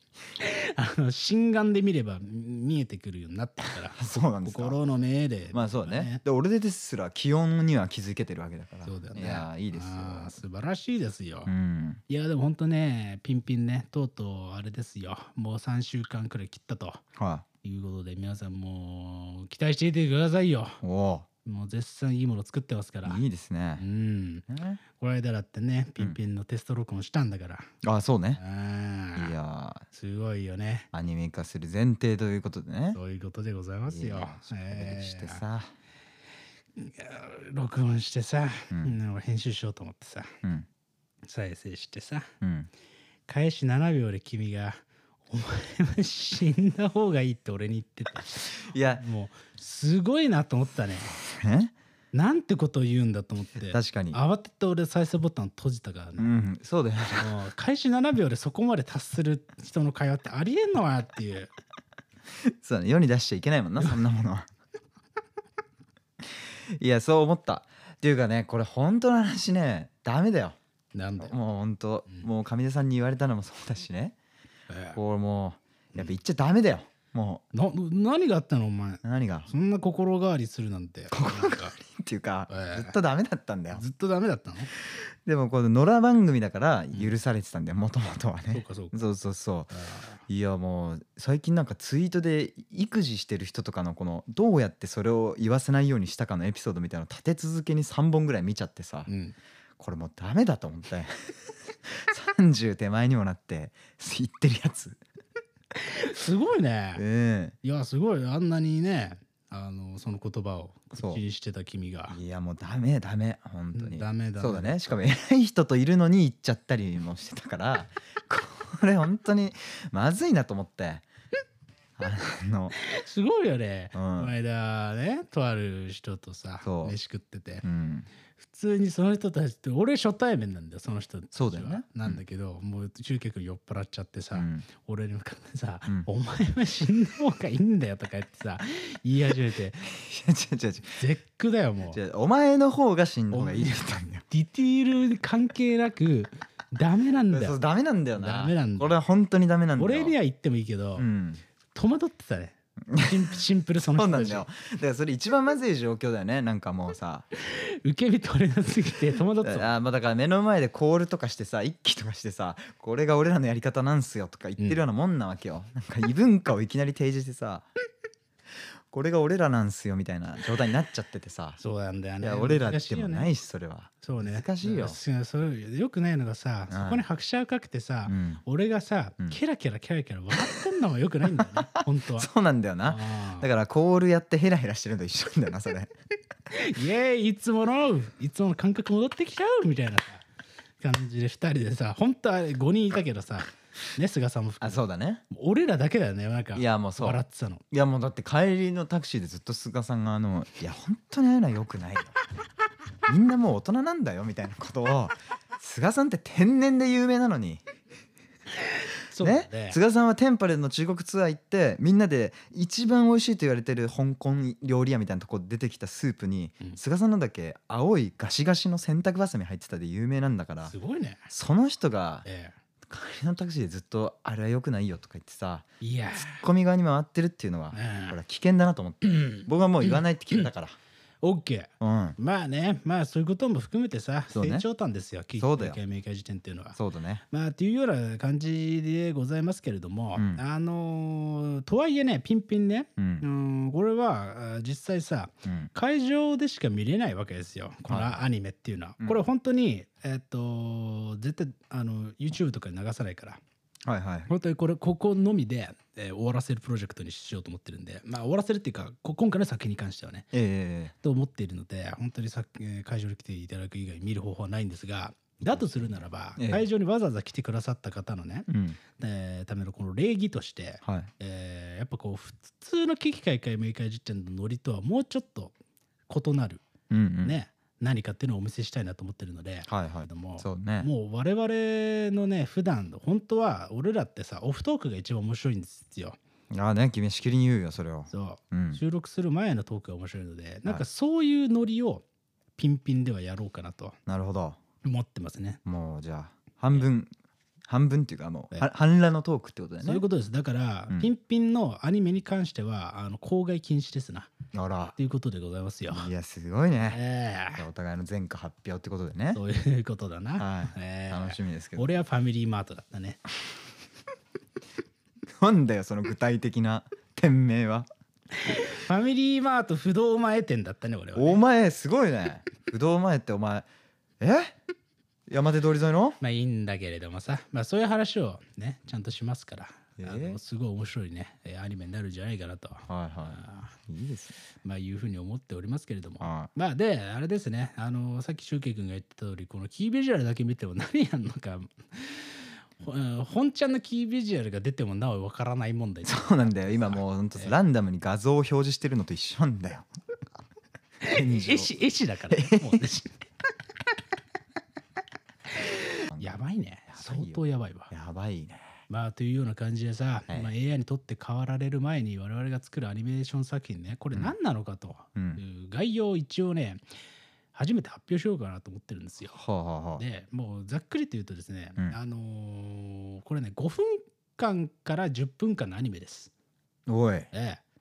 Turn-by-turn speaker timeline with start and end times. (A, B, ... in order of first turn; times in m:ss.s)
0:00.4-0:06.2 A
0:03.9-0:04.8 B
0:05.5-0:10.4 B
0:08.9-0:11.5 A
0:11.5-0:12.0 B
0:12.1-0:17.0 A
0:17.2-0:17.4 B
0:17.6-0:20.8 A
0:20.8-0:21.3 B
0:21.4-0:23.2 A
0:23.0-0:23.8 B
0:23.8-0:27.7 A
0:24.5-0:24.8 B
0:27.8-0:28.4 B
0:28.4-0:29.4 A
0:29.2-0:29.8 B
0:29.9-0:30.9 A
0:30.9-0:33.0 B
0:32.9-0:35.4 A
0:33.9-0:35.7 B
0:36.8-0:40.4 A
0:38.7-0:39.0 B
0:41.3-0:42.3 A
0:42.4-0:42.7 B
0:43.3-0:51.2 A
0:48.6-0:49.0 B
0:51.2-0:51.7 B
0:52.1-0:56.4 A
0:53.7-0:54.2 B
0:56.2-0:57.4 B
0:57.1-1:01.5 A
1:02.4-1:04.5 B
1:06.2-1:10.6 B
1:10.9-1:11.4 A
1:11.2-1:14.2 B
1:14.7-1:15.0 A
1:15.0-1:17.4 B
1:17.5-1:21.8 A
1:19.0-1:19.5 B
1:21.1-1:23.8 B
1:22.5-1:23.0 A
1:23.7-1:24.7 A
1:24.8-1:29.7 B
1:28.5-1:29.0 A
1:29.7-1:30.2 A
1:30.3-1:39.1 B
1:39.1-1:39.4 A
1:39.8-1:45.0 B
1:45.8-1:47.0 A
1:47.0-1:47.6 B
1:47.6-1:52.2 A
1:51.0-1:51.2 B
1:52.1-2:01.0 B
1:53.7-1:54.8 A
2:02.0-2:02.8 B
2:02.8-2:07.6 A
2:03.9-2:04.3 B
2:06.6-2:07.0 B
2:07.6-2:08.1 B
2:08.4-2:19.9 A
2:11.4-2:12.2 B
2:14.4-2:14.6 B
2:19.8-2:21.0 B
2:21.0-2:22.0 A
2:21.9-2:24.2 B
2:23.3-2:27.6 A
2:27.3-2:30.2 B
2:28.2-2:29.0 A
2:29.8-2:31.1 A
2:31.0-2:31.4 B
2:31.7-2:34.4 A
2:32.9-2:33.4 B
2:33.9-2:37.3 B
2:37.4-2:39.7 A
2:39.4-2:47.7 B
2:48.9-2:51.6 B
2:51.6-2:53.3 A
2:52.2-2:55.0 B
2:54.0-3:02.3 A
2:56.7-2:57.0 B
2:58.1-2:58.4 B
3:01.3-3:05.9 B
3:02.8-3:03.5 A
3:06.5-3:10.3 A
3:10.8-3:17.6 A
3:14.6-3:15.2 B
3:16.6-3:22.2 B
3:23.1-3:27.6 B
3:28.6-3:29.8 A
3:29.2-3:40.7 B
3:40.7-3:41.3 A
3:41.3-3:42.3 B
3:42.3-3:42.6 A
3:42.9-3:50.8 B
3:45.8-3:46.4 A
3:47.7-3:48.2 A
3:49.0-3:50.5 A
3:51.2-3:56.8 A
3:51.8-3:52.2 B
3:54.3-3:54.6 B
3:55.4-3:55.8 B
3:56.8-3:57.2 B
3:57.3-4:13.4 A
4:00.2-4:00.4 B
4:03.0-4:03.3 B
4:05.5-4:05.7 B
4:07.9-4:08.2 B
4:13.8-4:14.3 B
4:14.3-4:20.3 A
4:20.3-4:20.9 B
4:20.9-4:35.5 A
4:25.5-4:26.7 B
4:28.5-4:28.8 B
4:30.8-4:31.1 B
4:36.1-4:36.7 A
4:36.9-4:37.4 B
4:37.2-4:46.2 A
4:39.7-4:40.9 B
4:46.5-4:48.8 B
4:48.1-4:52.0 A
4:52.6-4:54.0 A
4:54.1-4:54.6 B
4:54.8-4:55.6 A
4:55.6-4:57.1 B
4:57.7-5:00.0 B
4:59.8-5:04.3 A
5:04.5-5:05.0 B
5:05.0-5:06.1 A
5:05.9-5:07.0 B
5:06.9-5:07.6 A
5:07.6-5:09.4 B
5:09.3-5:13.2 A
5:10.4-5:12.0 B
5:15.4-5:17.9 B
5:18.3-5:21.4 A
5:21.2-5:23.7 B
5:24.2-5:24.6 B
5:25.3-5:26.2 B
5:26.2-5:33.8 A
5:30.0-5:30.4 B
5:32.9-5:34.4 B
5:34.6-5:47.6 A
5:36.2-5:36.5 B
5:46.0-5:49.9 B
5:51.0-5:53.2 A
5:51.1-5:51.7 B
5:52.3-5:52.8 B
5:55.5-5:57.9 A
5:56.1-5:56.4 B
5:56.9-5:58.7 B
5:58.9-6:06.8 A
6:05.2-6:05.4 B
6:07.5-6:09.4 A
6:09.3-6:10.0 B
6:10.0-6:16.3 A
6:16.9-6:17.3 B
6:17.3-6:17.6 A